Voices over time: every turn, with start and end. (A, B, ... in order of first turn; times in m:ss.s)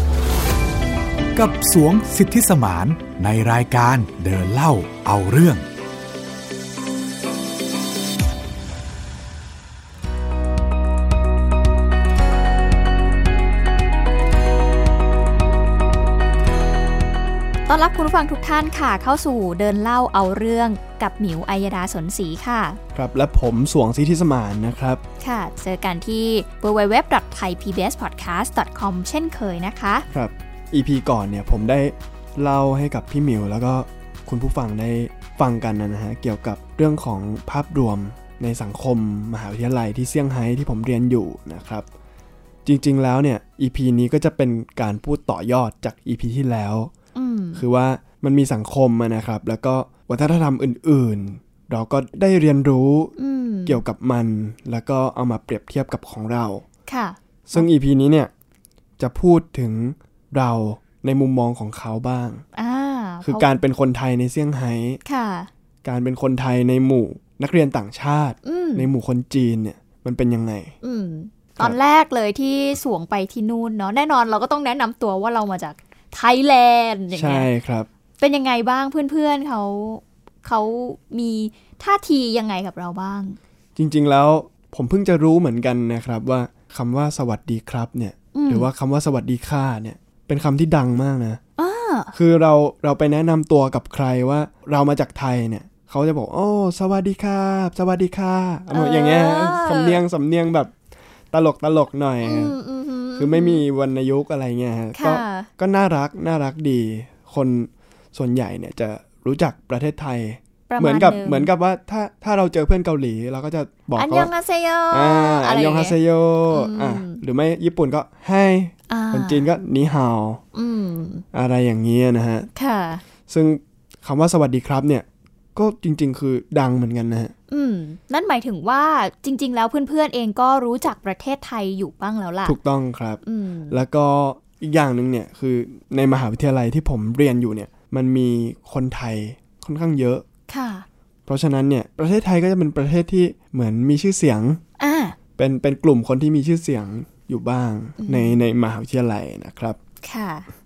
0:01.4-0:05.6 A
0:17.7-0:22.8 B
0:23.0-0:25.0 C
0:25.2-0:30.1 B
0:30.1-0:41.9 C
0:42.6-0:46.9 C
0:47.2-0:47.6 B
0:47.6-0:56.6 C
0:53.2-0:53.8 B
0:56.9-0:57.6 B
0:57.5-0:58.3 C
0:59.0-1:02.4 C
1:02.6-1:03.5 B
1:03.2-1:05.0 C
1:05.0-1:05.5 B
1:05.8-1:10.7 C
1:08.4-1:08.9 B
1:10.8-1:17.5 B
1:17.1-1:17.9 C
1:18.2-1:23.4 B
1:23.8-1:31.4 C
1:28.3-1:28.7 B
1:31.6-1:32.1 B
1:32.1-1:40.8 C
1:38.7-1:40.0 B
1:41.3-1:42.6 C
1:42.2-1:43.6 B
1:43.2-1:54.3 C
1:45.0-1:45.5 B
1:50.7-1:51.5 B
1:53.9-1:57.2 B
1:54.9-2:00.4 C
1:58.9-1:59.5 B
2:00.5-2:01.2 B
2:01.3-2:02.5 C
2:02.6-2:03.0 B
2:03.3-2:07.3 C
2:07.5-2:12.6 B
2:12.4-2:20.2 C
2:13.2-2:13.8 B
2:20.5-2:20.9 B
2:21.3-2:24.6 C
2:24.8-2:25.2 B
2:25.4-2:29.8 C
2:28.0-2:28.4 B
2:30.0-2:30.5 B